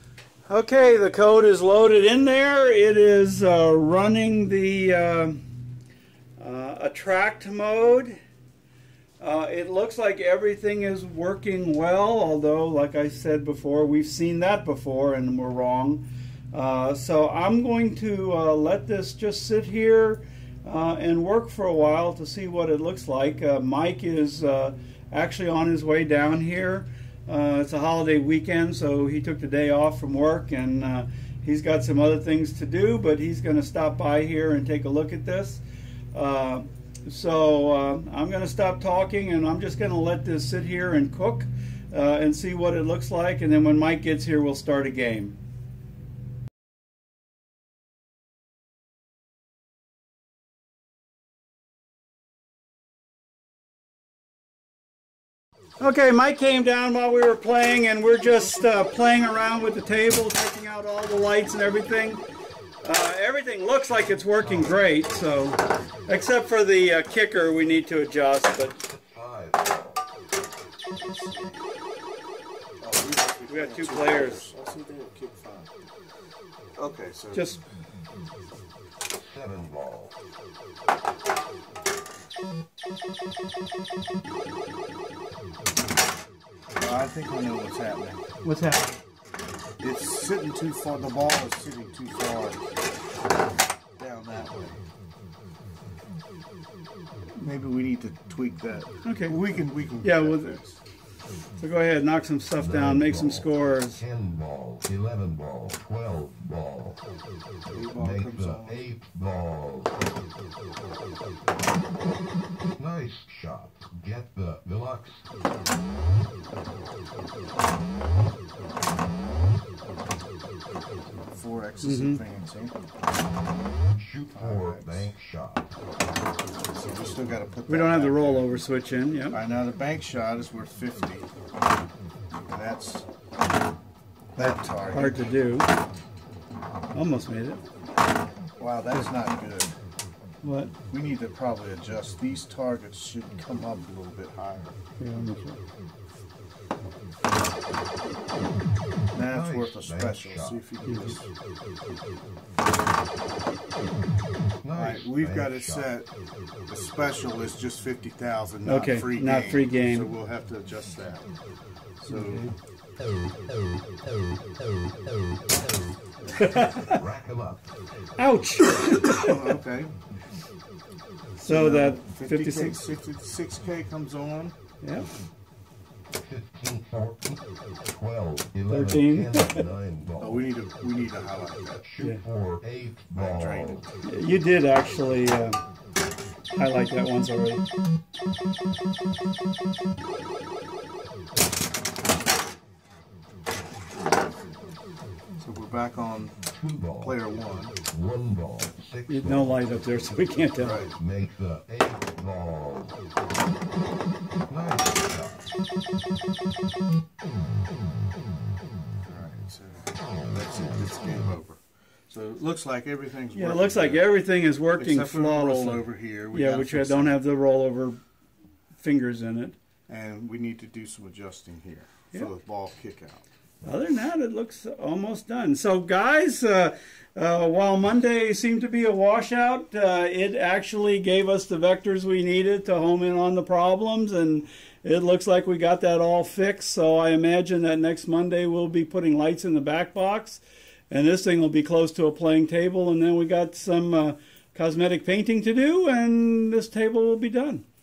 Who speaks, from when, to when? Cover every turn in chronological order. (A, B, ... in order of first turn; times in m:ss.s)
0:00.5-0:05.4 A
0:06.4-0:08.2 A
0:09.2-0:35.6 A
0:36.1-0:45.4 A
0:55.8-1:02.2 A
1:02.8-1:08.8 A
1:08.8-1:10.0 B
1:11.0-1:11.6 C
1:12.8-1:15.8 C
1:13.5-1:14.4 A
1:16.8-1:17.6 C
1:17.3-1:17.6 A
1:19.1-1:20.2 B
1:26.8-1:28.2 C
1:28.4-1:29.0 A
1:29.8-1:32.7 C
1:34.0-1:34.8 C
1:37.4-1:40.8 C
1:39.0-1:39.4 A
1:40.0-1:40.6 A
1:41.6-1:44.0 A
1:42.6-1:47.0 B
1:47.7-1:48.8 C
1:48.0-1:50.0 B
1:52.8-1:55.2 B
2:01.3-2:02.8 C
2:01.8-2:02.2 A
2:03.9-2:05.7 B
2:04.3-2:05.1 C
2:06.6-2:08.5 C
2:07.7-2:09.4 A
2:09.3-2:11.3 C
2:12.5-2:13.1 C
2:14.4-2:15.3 C
2:14.4-2:15.7 A
2:16.9-2:17.6 A
2:18.6-2:19.8 C
2:20.4-2:20.8 A
2:20.9-2:24.8 C
2:25.0-2:25.6 A
2:29.1-2:31.3 C
2:29.3-2:30.6 B
2:30.9-2:31.2 A
2:34.6-2:35.9 B
2:34.7-2:36.1 C
2:36.7-2:41.3 C
2:38.6-2:40.1 A
2:42.0-2:42.5 C
2:42.1-2:42.6 A
2:46.4-2:47.0 A
2:46.8-2:47.6 B
2:48.2-2:49.4 A
2:49.2-2:49.9 C
2:51.4-2:52.8 A
2:51.4-2:54.6 C
2:56.2-3:00.4 B
2:58.7-2:59.7 A
3:00.2-3:01.8 C
3:01.8-3:03.8 B
3:03.1-3:03.9 C
3:04.0-3:05.6 A
3:06.5-3:07.6 A
3:15.4-3:16.4 C
3:16.5-3:17.2 B
3:17.0-3:17.8 C
3:17.8-3:19.6 B
3:19.1-3:20.8 A
3:20.6-3:20.9 C
3:20.9-3:23.0 B
3:24.5-3:25.5 B
3:29.1-3:34.1 C
3:33.3-3:38.0 A
3:34.8-3:37.2 C
3:38.8-3:39.6 A
3:39.9-3:43.2 C
3:43.6-4:07.6 A